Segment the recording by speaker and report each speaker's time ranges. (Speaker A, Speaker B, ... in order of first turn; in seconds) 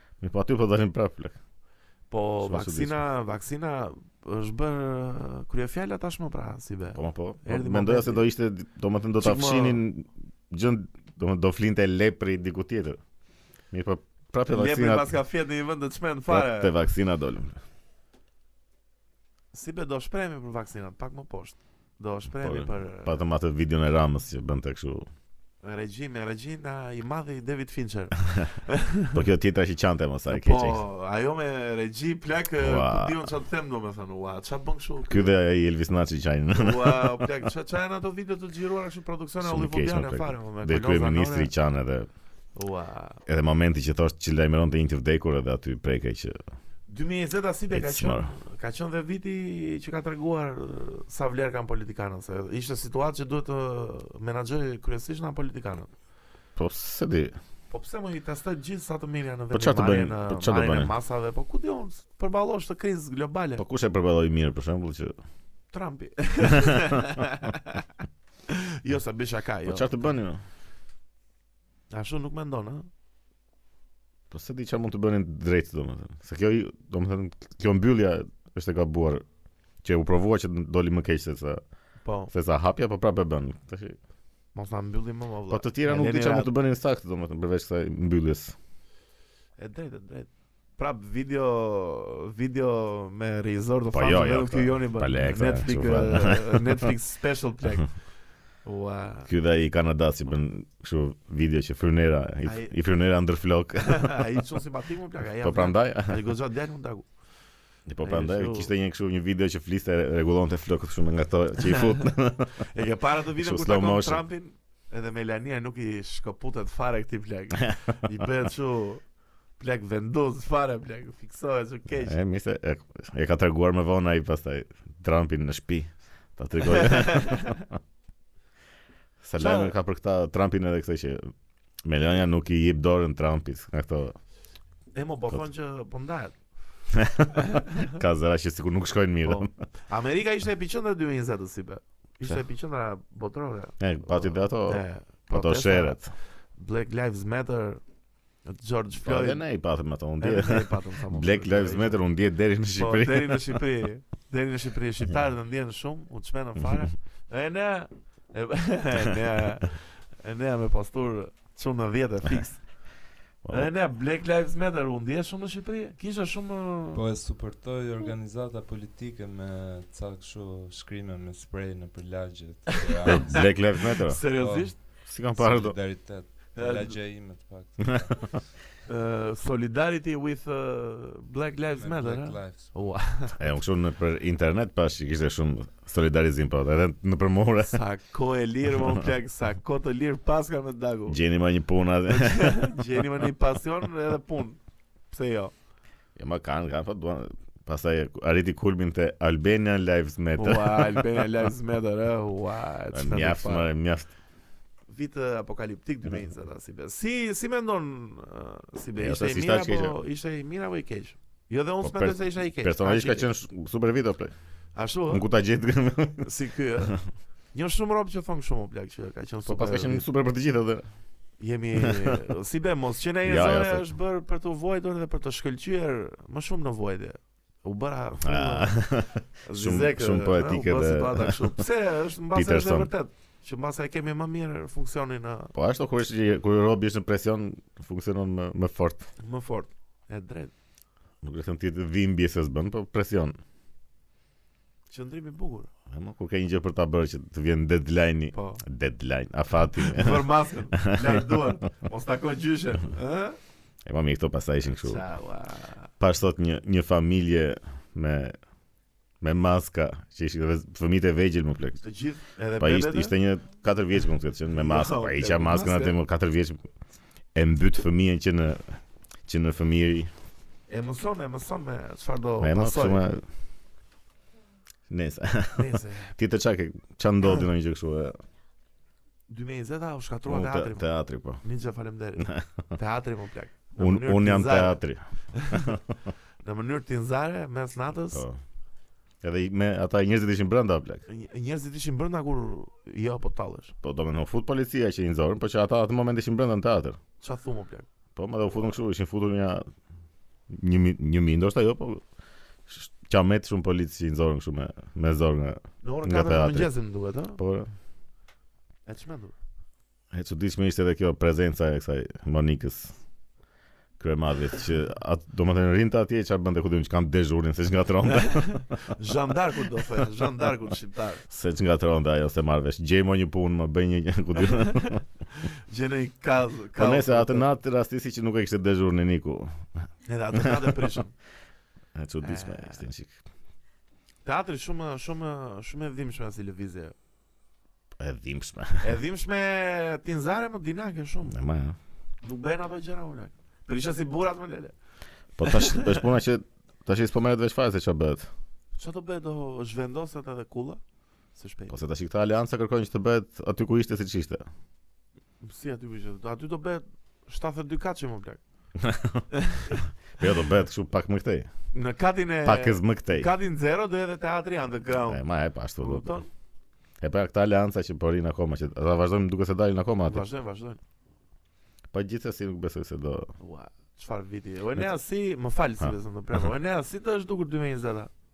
Speaker A: 0.2-1.4, 2.4-3.0, 7.0-13.0, 13.7-15.1, 16.3-17.6, 22.4-25.1, 29.1-30.8, 32.6-33.3, 35.1-37.3, 39.4-42.1, 43.3-46.4, 47.7-48.3, 56.6-57.4, 59.5-60.9, 63.6-65.2, 66.4-67.0, 69.7-70.4, 74.3-79.2, 79.8-81.6, 82.3-84.0, 85.5-88.6, 93.9-96.9, 99.3-104.2, 105.4-106.2, 107.9-112.6, 113.4-114.2, 121.9-127.7, 129.2-131.3, 131.8-134.2, 136.9-139.5, 143.8-146.1, 149.0-153.6, 163.4-163.7, 173.1-174.2, 175.1-175.8, 177.9-178.2, 183.4-187.8, 191.1-192.8, 196.2-201.1, 202.9-204.1, 209.0-210.0, 211.8-214.3, 215.1-216.3, 219.4-220.8, 221.8-222.2, 223.2-223.8, 228.2-231.6, 232.3-232.9, 235.6-239.1, 241.2-243.4, 245.9-251.5, 253.9-255.0, 256.0-258.4, 259.2-261.8, 262.6-266.6, 267.4-270.1, 272.4-273.2, 274.9-278.2, 280.3-281.4, 282.2-282.6, 283.8-285.8, 288.1-288.4, 289.2-291.1, 293.8-297.0, 298.2-299.7, 300.5-302.0, 302.7-306.7, 307.4-307.7, 310.1-312.9, 314.0-318.9, 321.3-325.0, 326.8-329.6, 330.3-330.8, 331.9-333.2, 338.0-339.0, 341.3-341.8, 345.4-348.3, 351.7-354.5, 358.8-359.3, 360.2-361.5, 362.4-363.3, 365.1-366.1, 367.0-370.2, 371.9-373.3
Speaker B: 2.1-8.2, 9.2-9.8, 14.5-16.8, 19.5-23.2, 25.6-29.1, 30.3-35.3, 36.5-41.5, 42.5-43.2, 46.9-55.9, 57.7-63.6, 65.7-67.9, 68.5-70.1, 71.9-72.9, 82.0-82.3, 84.5-86.5, 89.6-98.0, 98.6-99.3, 102.4-102.7, 103.8-107.1, 108.0-108.7, 111.7-112.0, 112.7-119.0, 119.6-122.2, 126.7-127.6, 129.4-129.7, 134.9-136.3, 137.4-137.9, 139.2-147.8, 148.4-149.4, 150.2-152.1, 152.8-162.7, 163.5-167.0, 173.1-174.8, 176.6-177.0, 178.9-183.4, 187.6-191.2, 192.1-195.5, 200.3-203.7, 204.9-213.3, 214.8-215.2, 216.2-217.0, 217.5-220.1, 221.4-228.8, 229.4-235.5, 239.2-240.5, 244.9-245.7, 248.3-248.6, 249.8-253.4, 254.8-255.9, 261.8-263.1, 264.5-266.0, 270.7-273.1, 275.6-276.1, 279.3-280.9, 281.4-284.8, 285.3-285.8, 286.4-288.2, 291.1-293.7, 297.2-297.9, 305.8-307.4, 308.9-309.3, 318.2-321.3, 324.4-327.5, 330.1-331.1, 332.2-332.9, 334.2-336.9, 338.8-341.4, 342.2-344.8, 345.4-346.1, 348.8-350.8, 351.4-351.8, 355.4-358.4, 359.3-359.9, 361.7-365.2, 365.8-366.3, 370.1-370.8, 373.4-378.1
Speaker C: 166.9-173.6, 174.3-178.4, 181.8-182.8